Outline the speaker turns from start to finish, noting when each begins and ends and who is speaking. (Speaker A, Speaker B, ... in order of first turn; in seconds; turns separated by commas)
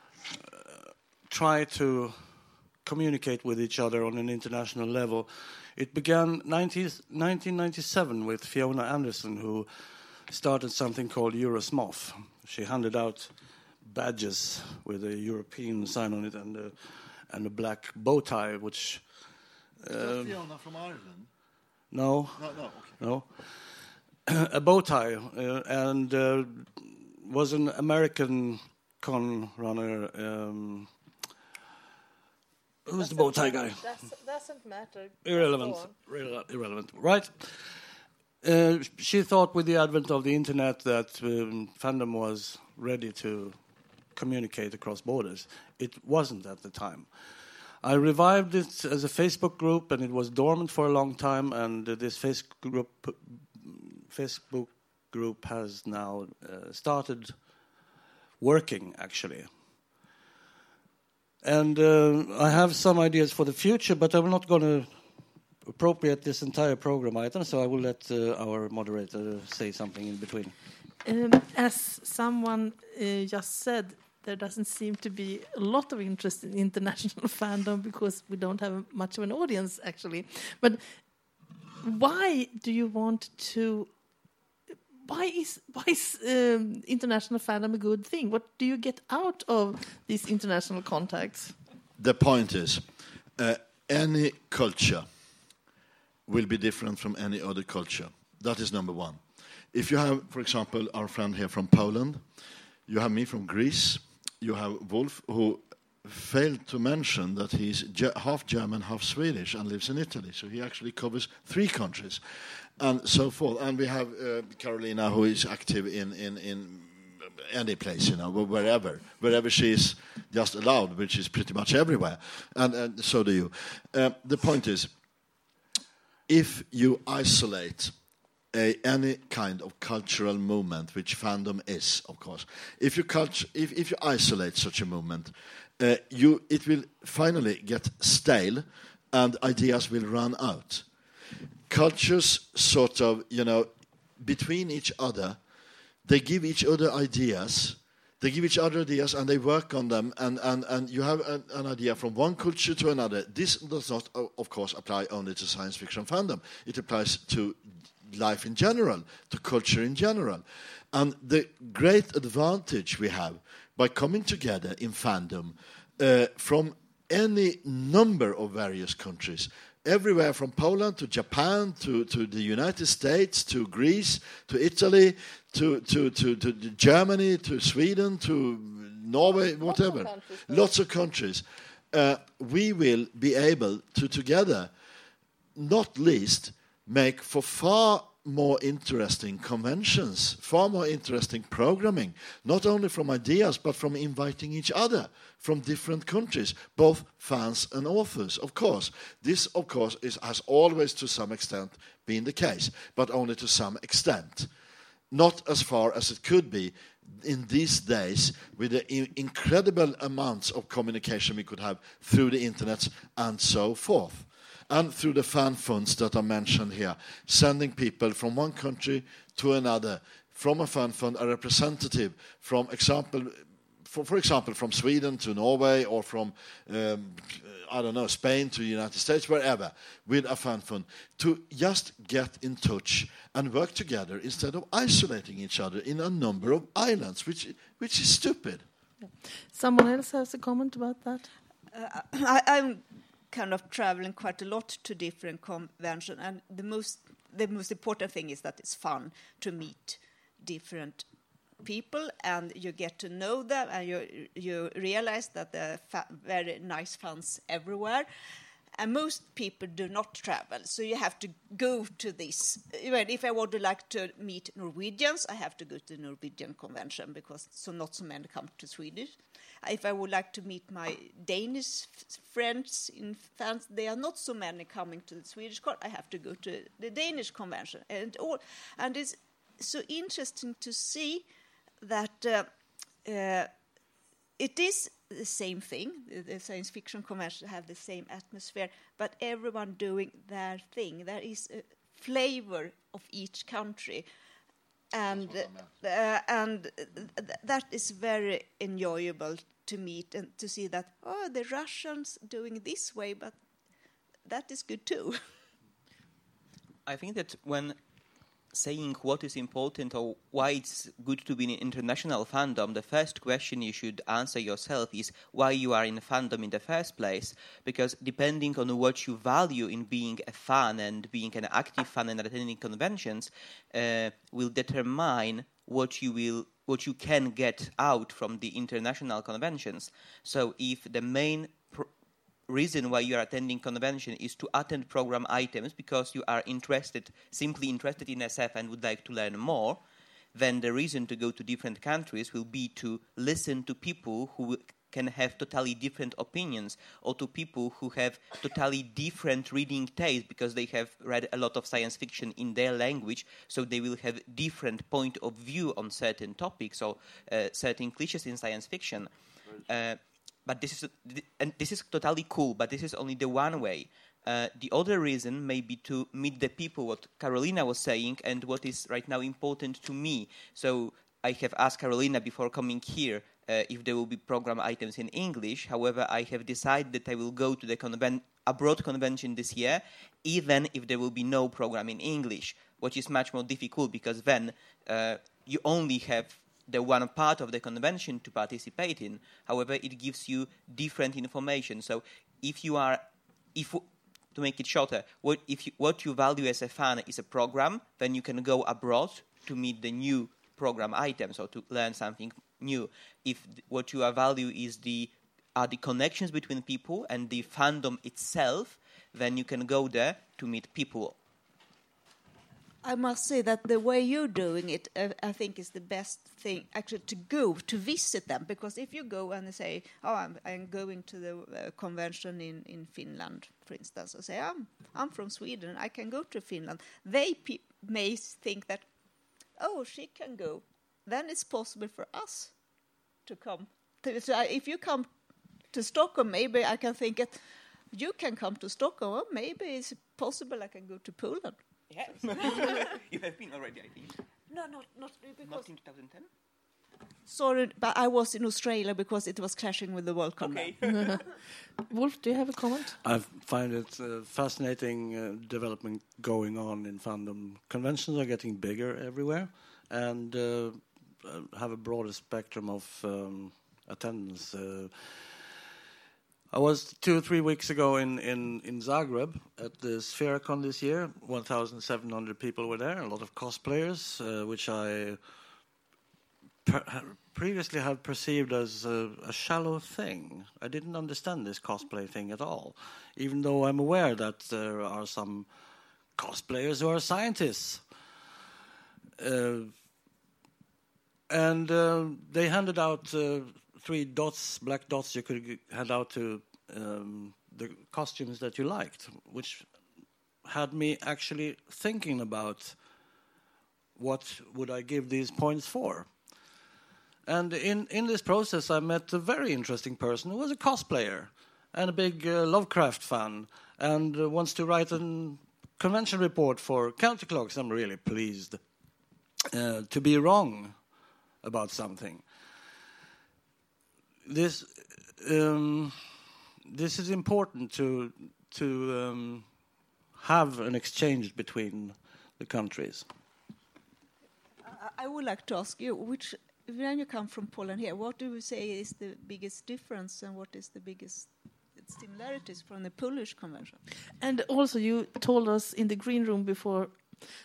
Speaker A: 0.3-19.0, Speaker A: 19.8-20.4, Speaker B: 19.9-21.3, Speaker A: 21.9-23.6, Speaker B: 22.4-23.0, Speaker A: 24.3-30.9, Speaker A: 32.8-33.9, Speaker C: 33.0-35.9, Speaker A: 35.2-37.8, Speaker A: 38.4-43.6, Speaker A: 44.1-47.1, Speaker A: 47.8-57.4, Speaker A: 58.4-59.5, Speaker A: 61.4-65.0, Speaker A: 65.7-70.5, Speaker C: 71.0-80.8, Speaker C: 81.8-83.9, Speaker C: 85.0-91.5, Speaker B: 92.0-92.8, Speaker B: 93.4-95.0, Speaker B: 96.3-99.2, Speaker B: 99.7-102.2, Speaker B: 102.9-112.2, Speaker B: 112.8-124.9, Speaker B: 126.3-127.9, Speaker B: 128.5-140.8, Speaker B: 141.7-145.4, Speaker B: 146.0-184.7, Speaker C: 179.6-180.7, Speaker B: 185.5-204.5, Speaker B: 205.1-238.6, Speaker C: 239.0-241.3, Speaker D: 241.7-251.1, Speaker D: 251.6-258.1, Speaker D: 258.8-281.2, Speaker D: 281.8-282.5, Speaker D: 283.0-283.5, Speaker D: 284.4-294.1, Speaker D: 294.9-303.4, Speaker B: 295.3-295.7, Speaker D: 304.2-305.2, Speaker E: 306.9-307.8, Speaker E: 308.5-331.9, Speaker E: 332.5-339.8, Speaker E: 340.3-393.0, Speaker E: 393.5-411.2, Speaker D: 412.8-428.9, Speaker D: 429.6-432.5, Speaker D: 433.2-435.1, Speaker D: 435.7-437.4, Speaker D: 437.9-441.6, Speaker E: 441.9-444.2, Speaker D: 442.1-442.9, Speaker D: 444.5-445.7, Speaker E: 445.4-446.3, Speaker D: 447.3-450.8, Speaker E: 450.4-451.2, Speaker C: 450.9-451.4, Speaker C: 451.9-453.0, Speaker A: 453.0-465.5, Speaker A: 466.5-475.2, Speaker A: 476.6-485.5, Speaker A: 486.1-487.8, Speaker A: 489.2-489.7, Speaker A: 491.3-499.7, Speaker A: 500.4-502.8, Speaker A: 503.9-506.1, Speaker A: 507.2-518.6, Speaker A: 519.5-520.9, Speaker A: 521.4-522.3, Speaker A: 524.2-526.0, Speaker A: 526.7-529.5, Speaker A: 530.1-533.0, Speaker D: 534.6-543.8, Speaker C: 544.2-547.0